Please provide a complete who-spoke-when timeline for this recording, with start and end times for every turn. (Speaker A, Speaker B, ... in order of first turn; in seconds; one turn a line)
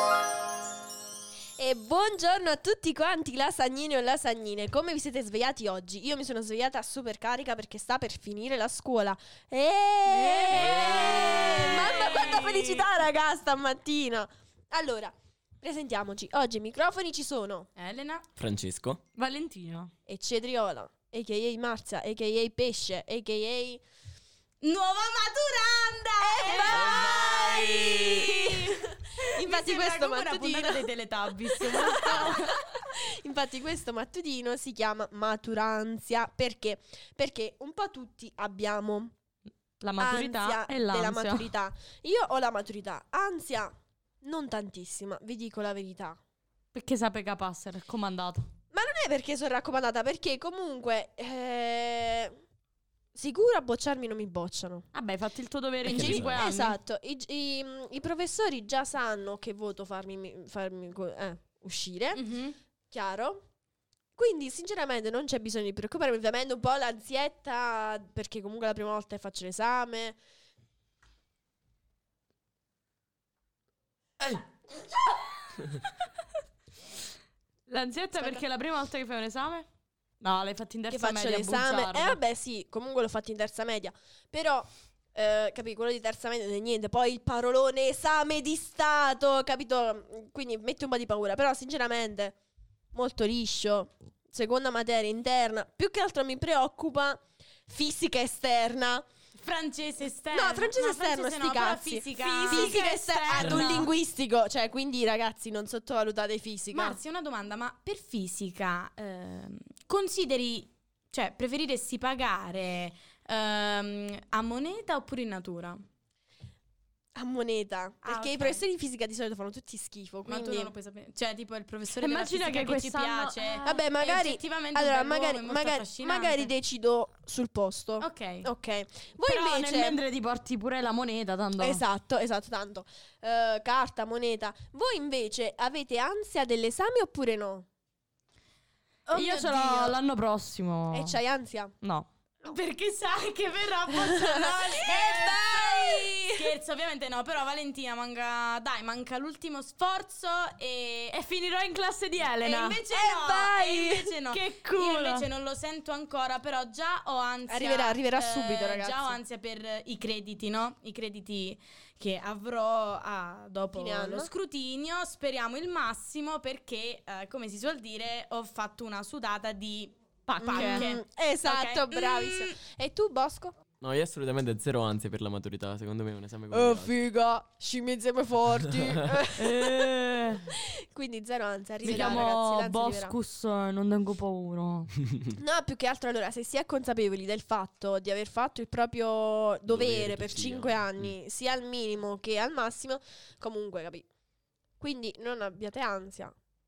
Speaker A: 1.6-17.7
Speaker B: 10.1-12.8
Speaker C: 10.6-12.4
Speaker B: 17.8-18.2
Speaker D: 18.4-19.0
Speaker C: 19.1-19.9
Speaker A: 20.1-23.8
Speaker B: 24.6-32.4
Speaker A: 26.2-27.2
Speaker D: 26.7-28.2
Speaker A: 28.0-30.9
Speaker C: 30.6-32.5
Speaker A: 31.6-39.1
Speaker C: 39.8-41.5
Speaker A: 40.0-46.2
Speaker C: 46.7-48.4
Speaker A: 48.7-52.4
Speaker A: 53.1-54.9
Speaker C: 54.9-56.8
Speaker D: 55.8-56.4
Speaker A: 55.9-62.2
Speaker B: 62.1-62.5
Speaker A: 62.9-63.4
Speaker A: 64.2-70.2
Speaker C: 77.7-79.7
Speaker C: 80.2-82.2
Speaker A: 80.9-92.3
Speaker A: 92.9-99.0
Speaker B: 99.3-103.9
Speaker A: 100.3-107.0
Speaker C: 102.3-103.9
Speaker B: 106.7-115.8
Speaker A: 117.2-120.7
Speaker B: 118.0-118.6
Speaker B: 120.2-126.5
Speaker C: 122.0-123.7
Speaker A: 123.6-130.0
Speaker B: 128.0-128.5
Speaker C: 129.2-131.8
Speaker A: 131.6-137.7
Speaker B: 139.1-140.0
Speaker C: 139.1-141.2
Speaker A: 140.9-141.8
Speaker C: 141.8-142.1
Speaker B: 142.4-151.2
Speaker A: 143.9-146.5
Speaker C: 151.1-152.8
Speaker B: 152.4-172.6
Speaker A: 152.9-154.1
Speaker C: 154.3-155.3
Speaker A: 157.5-159.2
Speaker A: 163.7-164.3
Speaker C: 170.3-170.9
Speaker A: 170.4-173.5
Speaker D: 173.8-176.9
Speaker A: 176.5-179.9
Speaker C: 179.3-180.5
Speaker A: 180.5-183.2
Speaker C: 181.8-184.9
Speaker A: 185.3-194.1
Speaker D: 189.7-191.1
Speaker A: 194.8-196.3